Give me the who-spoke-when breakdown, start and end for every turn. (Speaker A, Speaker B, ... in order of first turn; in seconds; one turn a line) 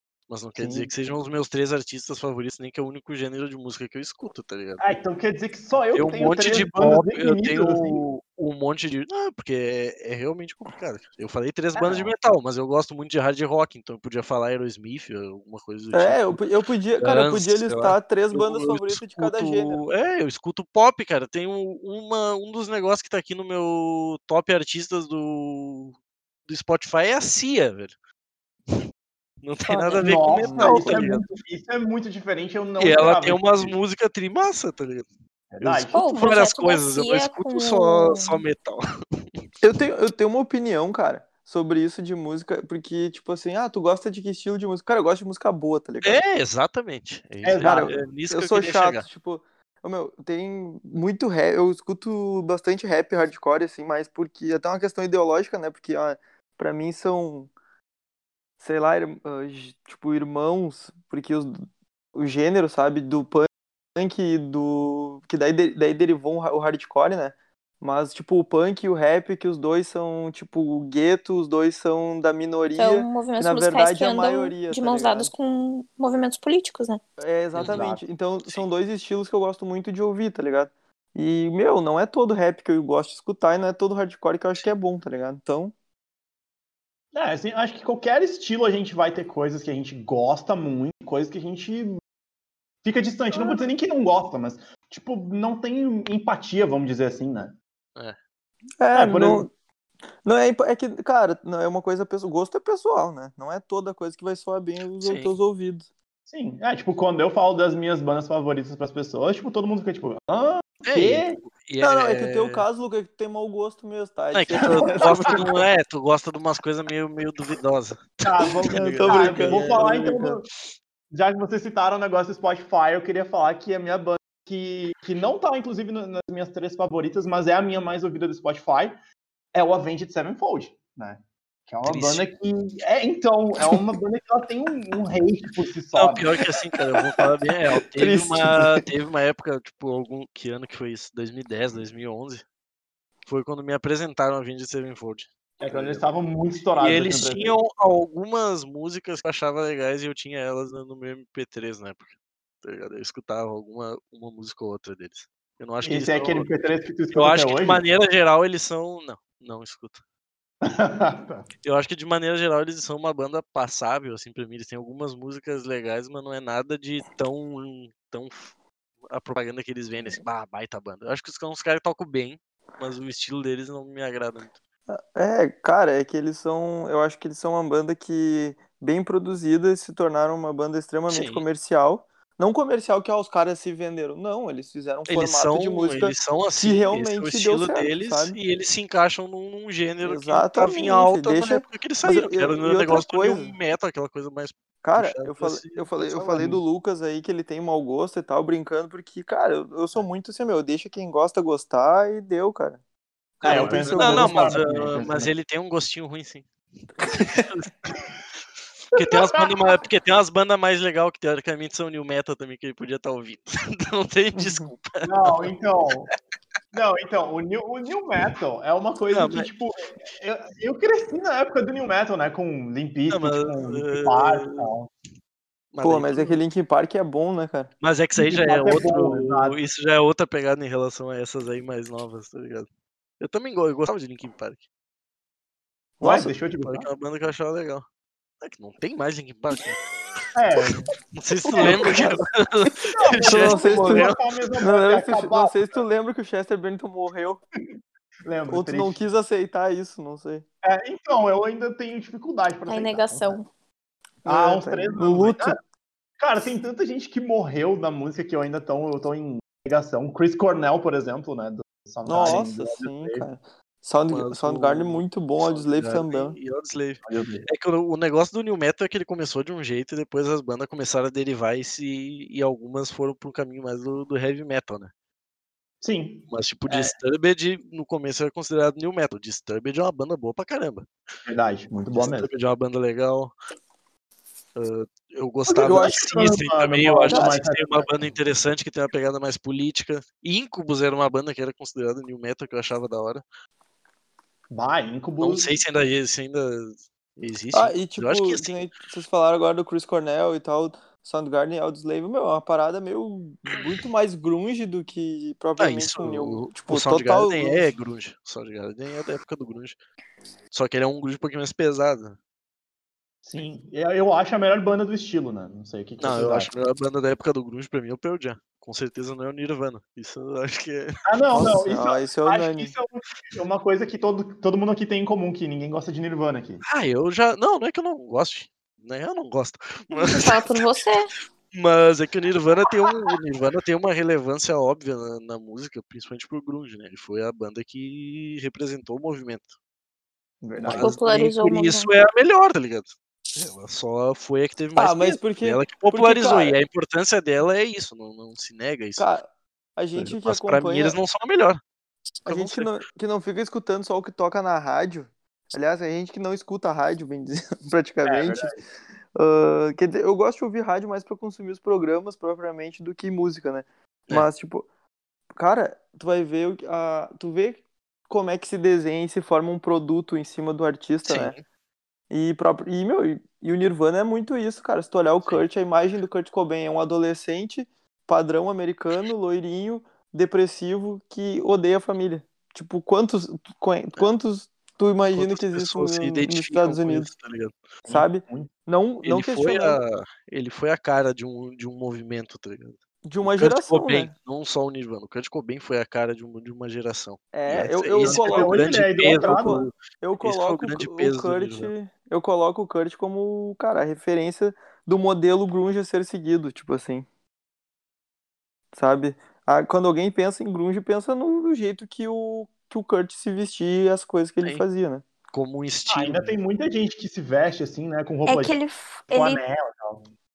Speaker A: 0.3-5.0
Speaker B: 0.6-0.9
Speaker C: 4.8-8.0
Speaker A: 5.9-16.4
Speaker C: 11.8-12.1
Speaker B: 15.9-19.8
Speaker A: 17.0-25.9
Speaker A: 26.5-27.9
Speaker A: 29.4-31.2
Speaker D: 29.7-30.2
Speaker C: 30.0-33.8
Speaker B: 30.4-31.0
Speaker A: 32.8-35.1
Speaker C: 35.5-36.1
Speaker A: 35.6-38.8
Speaker D: 35.9-38.4
Speaker B: 39.6-46.2
Speaker A: 46.0-49.1
Speaker C: 47.4-48.0
Speaker B: 47.6-57.5
Speaker B: 58.6-61.6
Speaker B: 62.1-75.3
Speaker D: 72.8-77.0
Speaker B: 77.2-85.7
Speaker A: 77.5-78.7
Speaker C: 87.1-92.0
Speaker C: 92.8-97.6
Speaker B: 93.3-93.6
Speaker B: 98.8-99.5
Speaker C: 99.0-99.5
Speaker B: 100.2-105.9
Speaker A: 105.0-105.3
Speaker C: 106.3-111.4
Speaker A: 110.8-112.7
Speaker B: 111.8-115.5
Speaker A: 114.3-120.2
Speaker C: 114.6-115.5
Speaker C: 118.2-120.5
Speaker B: 118.8-120.4
Speaker C: 121.1-128.9
Speaker C: 129.5-136.3
Speaker A: 131.8-132.3
Speaker A: 135.9-142.4
Speaker B: 137.9-138.8
Speaker A: 143.3-146.1
Speaker C: 145.6-147.5
Speaker A: 146.8-156.5
Speaker C: 155.8-157.8
Speaker A: 157.1-160.0
Speaker C: 160.6-161.5
Speaker A: 161.6-168.5
Speaker A: 169.1-174.6
Speaker B: 174.9-188.4
Speaker A: 181.1-181.5
Speaker A: 185.1-196.6
Speaker B: 190.0-193.6
Speaker B: 194.8-202.8
Speaker B: 203.4-204.6
Speaker C: 203.4-205.3
Speaker A: 203.4-206.5
Speaker A: 207.0-207.7
Speaker B: 207.0-207.5
Speaker A: 208.9-215.5
Speaker C: 208.9-209.3
Speaker C: 215.0-216.1
Speaker C: 216.7-224.9
Speaker A: 219.1-219.5
Speaker A: 223.1-224.8
Speaker A: 225.7-226.4
Speaker B: 225.8-227.7
Speaker A: 227.8-232.7
Speaker C: 228.2-229.6
Speaker A: 233.2-234.7
Speaker B: 236.0-236.3
Speaker C: 236.0-236.9
Speaker A: 236.7-237.8
Speaker A: 238.4-244.3
Speaker C: 240.3-240.9
Speaker B: 241.5-247.4
Speaker C: 241.5-242.1
Speaker C: 242.9-245.7
Speaker C: 248.2-249.0
Speaker B: 248.5-250.4
Speaker C: 250.6-253.4
Speaker D: 252.7-253.5
Speaker C: 254.2-255.6
Speaker B: 254.2-255.6
Speaker C: 256.2-263.3
Speaker B: 262.1-266.4
Speaker A: 264.1-274.9
Speaker C: 267.1-267.5
Speaker C: 275.8-276.9
Speaker A: 276.3-280.9
Speaker C: 281.3-282.3
Speaker A: 281.9-283.3
Speaker A: 284.6-293.2
Speaker C: 285.5-287.9
Speaker B: 285.6-285.9
Speaker C: 294.5-295.6
Speaker A: 295.2-298.6
Speaker B: 297.5-307.8
Speaker A: 305.6-309.8
Speaker A: 310.5-312.2
Speaker C: 313.2-316.5
Speaker A: 316.0-320.9
Speaker C: 321.1-326.6
Speaker B: 321.3-322.8
Speaker A: 326.7-330.6
Speaker D: 329.9-331.1
Speaker A: 331.5-339.5
Speaker C: 340.4-341.0
Speaker A: 340.6-349.1
Speaker D: 340.7-341.9
Speaker B: 344.8-346.6
Speaker B: 349.0-351.0
Speaker A: 349.9-351.6
Speaker A: 352.2-352.7
Speaker B: 352.3-358.5
Speaker C: 358.1-358.6
Speaker B: 359.1-364.7
Speaker B: 365.4-371.4
Speaker A: 371.1-371.4
Speaker B: 372.1-387.1
Speaker A: 385.1-387.5
Speaker C: 387.9-388.5
Speaker B: 387.9-389.8
Speaker A: 389.0-401.7
Speaker B: 393.1-394.1
Speaker B: 397.3-407.1
Speaker C: 398.0-399.7
Speaker B: 408.7-415.0
Speaker A: 415.3-416.4
Speaker C: 415.9-418.6
Speaker D: 418.3-419.4
Speaker C: 419.1-420.1